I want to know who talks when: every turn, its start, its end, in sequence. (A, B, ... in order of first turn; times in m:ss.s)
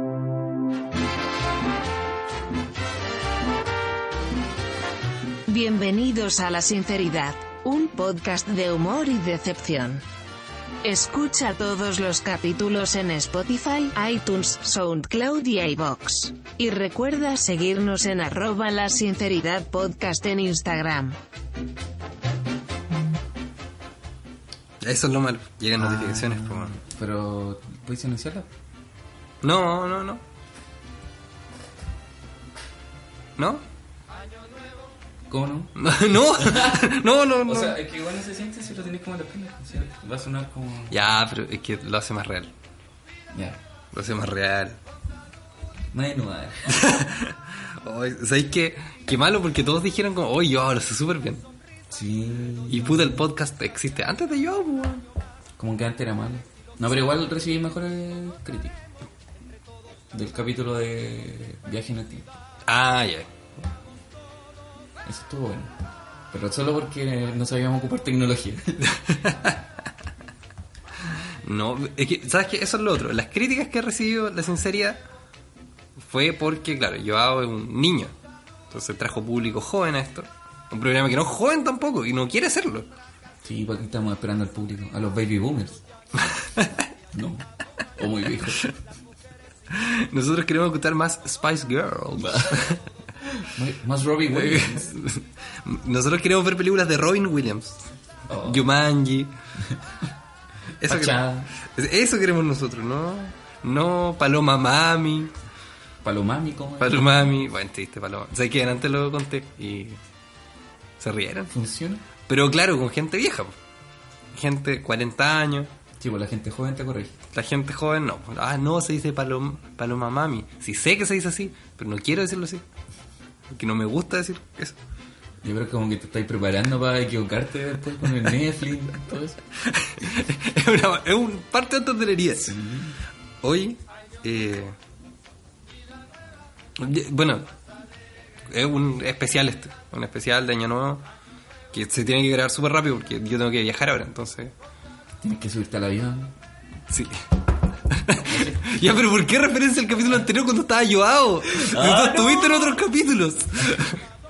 0:05.5-0:10.0 A
0:10.8-0:21.2 A
0:24.8-0:26.8 B
0:25.8-0:28.5 C
0:29.4-0:30.2 B
0:33.4-0:33.6 B
0:35.3-0:36.8 C
0:35.8-0:37.8 B
0:37.4-0:41.0 C
0:40.9-0:42.5 B
0:43.3-0:43.6 C
0:43.9-0:44.8 B
0:45.9-0:46.8 C
0:46.8-0:51.4 B
0:51.9-0:53.2 C
0:52.7-0:55.0 B
0:55.6-0:58.8 C
1:00.1-1:02.4 C
1:02.7-1:03.3 B
1:05.0-1:05.7 C
1:06.3-1:08.8 C
1:09.0-1:09.6 B
1:11.4-1:15.0 B
1:16.0-1:18.1 B
1:18.7-1:22.9 B
1:23.4-1:25.8 C
1:27.1-1:27.4 C
1:28.0-1:28.7 C
1:29.7-1:32.8 B
1:32.2-1:32.6 C
1:33.4-1:34.9 C
1:34.3-1:37.8 B
1:38.3-1:38.6 C
1:38.4-1:39.3 B
1:40.8-1:41.2 B
1:40.8-1:41.5 C
1:41.7-1:45.3 B
1:46.0-1:47.3 C
1:46.8-1:50.0 B
1:51.0-1:51.5 B
1:51.5-1:52.0 C
1:52.3-1:53.5 B
1:54.3-1:55.7 B
1:56.0-1:57.1 C
1:57.3-2:02.6 B
2:03.5-2:04.8 B
2:05.4-2:09.4 C
2:09.7-2:12.5 B
2:12.4-2:13.0 C
2:13.4-2:14.7 B
2:16.8-2:17.5 B
2:18.5-2:21.0 B
2:21.7-2:24.5 B
2:25.2-2:26.3 C
2:27.9-2:34.0 B
2:28.2-2:28.8 C
2:31.6-2:32.8 C